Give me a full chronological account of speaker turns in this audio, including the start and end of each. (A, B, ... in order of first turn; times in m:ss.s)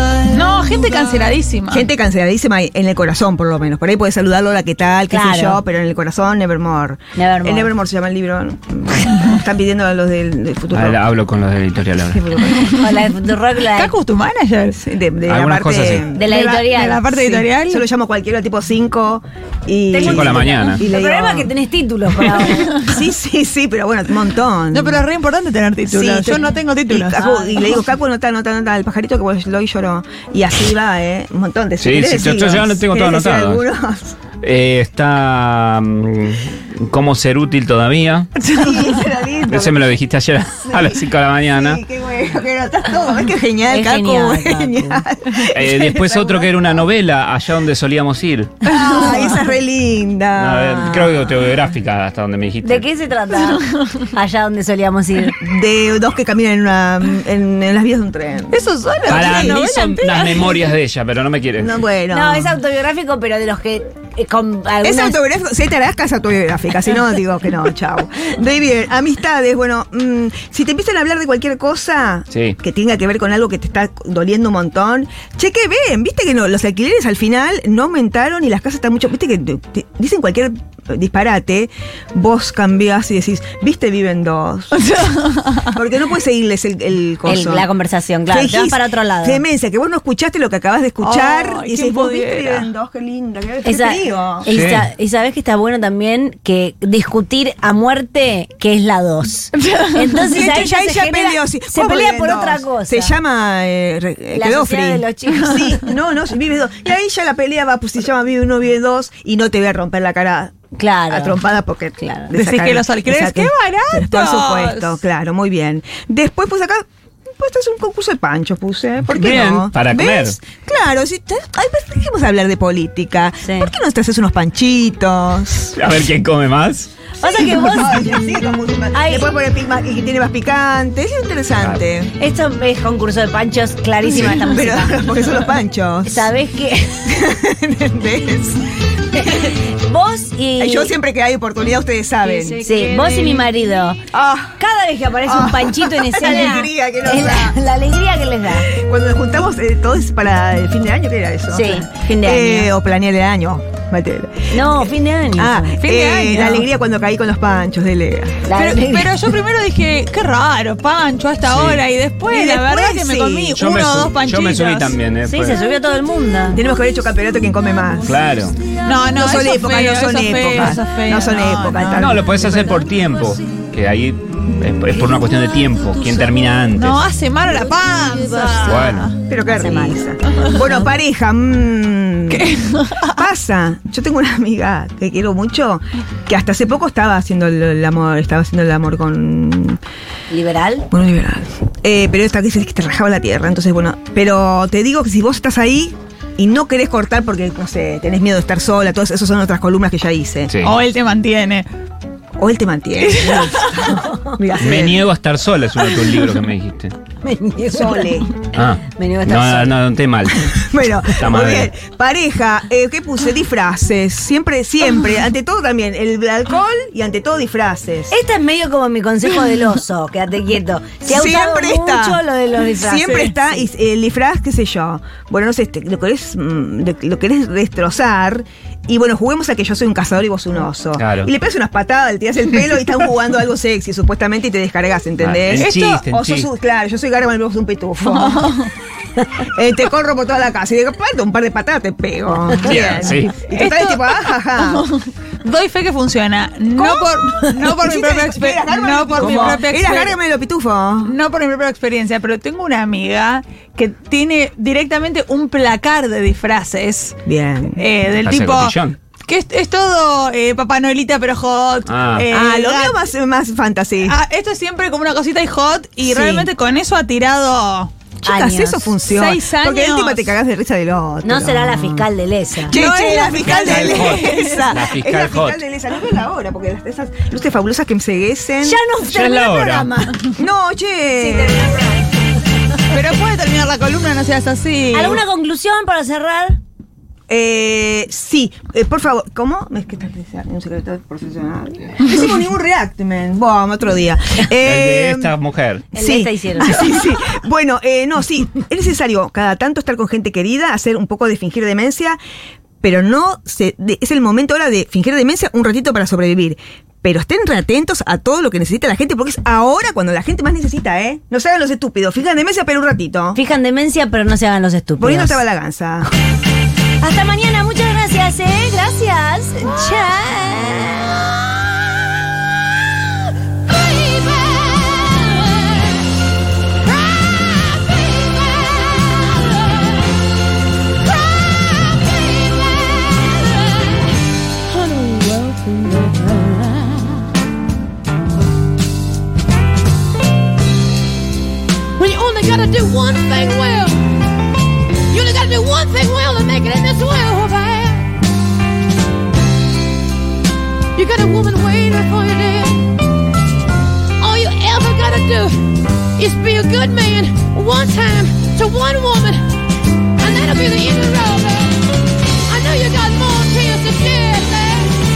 0:00.2-0:01.9 A
0:01.7-0:11.0 B
0:05.1-0:05.6 C
0:07.2-0:07.7 C
0:10.7-0:12.3 D
0:12.1-0:12.7 B
0:12.5-0:12.9 A
0:12.8-0:13.9 C
0:13.7-0:14.8 A
0:14.7-0:16.4 B
0:15.2-0:16.0 D
0:16.1-0:17.1 C
0:16.2-0:17.8 A
0:17.1-0:21.5 B
0:19.9-0:22.9 C
0:20.0-0:20.8 D
0:22.5-0:25.0 B
0:24.7-0:27.6 A
0:25.9-0:34.2 B
0:27.1-0:27.6 C
0:31.8-0:33.6 D
0:34.4-0:38.3 D
0:38.4-0:39.0 A
0:38.5-0:39.9 B
0:39.5-0:41.8 D
0:40.6-0:46.9 B
0:43.7-0:45.0 C
0:45.5-0:48.7 D
0:48.7-0:49.4 A
0:48.7-0:51.0 B
0:50.3-0:52.8 D
0:50.8-0:51.1 C
0:52.6-0:55.4 C
0:53.4-0:54.0 A
0:55.4-0:58.6 B
0:58.5-1:00.7 A
0:59.1-1:01.8 D
0:59.1-0:59.6 B
1:01.6-1:02.6 B
1:02.1-1:05.2 C
1:04.8-1:24.9 B
1:12.3-1:12.6 D
1:24.8-1:25.7 A
1:25.7-1:27.6 B
1:27.2-1:29.4 C
1:28.3-1:34.5 B
1:31.0-1:32.7 A
1:33.6-1:43.1 C
1:34.5-1:34.9 D
1:39.6-1:40.2 A
1:40.3-1:50.5 B
1:44.3-1:45.8 C
1:50.7-1:51.4 C
1:51.1-1:56.8 B
1:52.0-1:52.3 C
1:52.3-1:55.0 A
1:57.4-2:05.8 B
1:59.1-2:00.4 D
2:03.4-2:03.7 C
2:05.8-2:06.9 D
2:07.2-2:08.1 C
2:07.2-2:12.1 B
2:08.9-2:09.3 C
2:11.6-2:11.8 D
2:12.2-2:15.0 C
2:14.0-2:16.3 B
2:16.0-2:17.0 C
2:17.0-2:19.6 B
2:19.2-2:20.9 C
2:20.6-2:23.4 B
2:22.2-2:24.0 C
2:24.1-2:24.6 B
2:24.6-2:28.7 C
2:25.2-2:27.6 B
2:28.6-2:38.4 B
2:31.5-2:32.7 C
2:34.5-2:35.8 C
2:35.8-2:36.6 A
2:38.5-2:39.2 C
2:38.5-2:45.0 A
2:41.5-2:41.8 D
2:42.3-2:43.6 B
2:43.6-2:45.6 D
2:45.3-2:46.6 C
2:46.5-2:48.1 B
2:48.0-2:48.6 D
2:48.8-2:52.2 A
2:49.1-2:52.8 B
2:51.9-2:57.0 D
2:56.8-2:59.1 A
2:58.6-2:59.1 D
2:59.3-3:02.5 B
2:59.5-3:00.0 C
3:02.3-3:03.1 A
3:03.1-3:09.8 B
3:10.3-3:10.9 C
3:10.9-3:20.6 B
3:20.5-3:20.8 D
3:20.6-3:21.7 A
3:22.4-3:25.1 B
3:23.1-3:23.8 A
3:24.6-3:26.9 D
3:27.2-3:28.2 C
3:27.7-3:28.3 B
3:28.5-3:30.4 D
3:28.9-3:29.8 C
3:30.3-3:38.1 B
3:31.0-3:31.7 D
3:38.1-3:43.6 C
3:41.0-3:42.2 B
3:42.8-3:58.6 B
3:51.0-3:51.3 D
3:55.2-3:56.5 D
3:55.6-3:56.0 A
3:58.0-3:58.7 A
3:59.4-4:04.9 B
4:02.6-4:03.4 D
4:03.5-4:10.2 A
4:06.8-4:11.1 B
4:09.2-4:09.6 D
4:11.0-4:17.2 A
4:17.2-4:17.8 B
4:17.7-4:23.0 A
4:18.2-4:19.0 D
4:21.9-4:22.2 D
4:22.3-4:24.2 B
4:24.0-4:27.9 A
4:26.0-4:26.5 B
4:28.2-4:32.1 B
4:28.2-4:28.9 C
4:29.1-4:30.3 A
4:31.2-4:32.8 C
4:32.6-4:38.8 B
4:32.7-4:34.7 A
4:33.4-4:35.6 D
4:38.6-4:39.8 C
4:39.0-4:40.2 D
4:39.5-4:42.0 B
4:41.2-4:42.1 C
4:42.9-4:45.2 A
4:44.9-4:46.6 C
4:47.3-4:55.4 B
4:54.6-4:55.9 D
4:55.9-5:02.2 B
4:55.9-4:56.8 C
5:02.8-5:13.4 B
5:13.3-5:15.4 C
5:15.0-5:16.1 B
5:17.0-5:21.2 C
5:31.6-5:33.3 E
5:34.7-5:36.6 E
5:35.2-5:35.6 C
5:42.0-5:44.2 E
5:45.1-5:48.1 E
5:51.0-5:52.9 E
5:54.2-5:59.4 E
6:00.2-6:01.8 E
6:02.5-6:05.0 E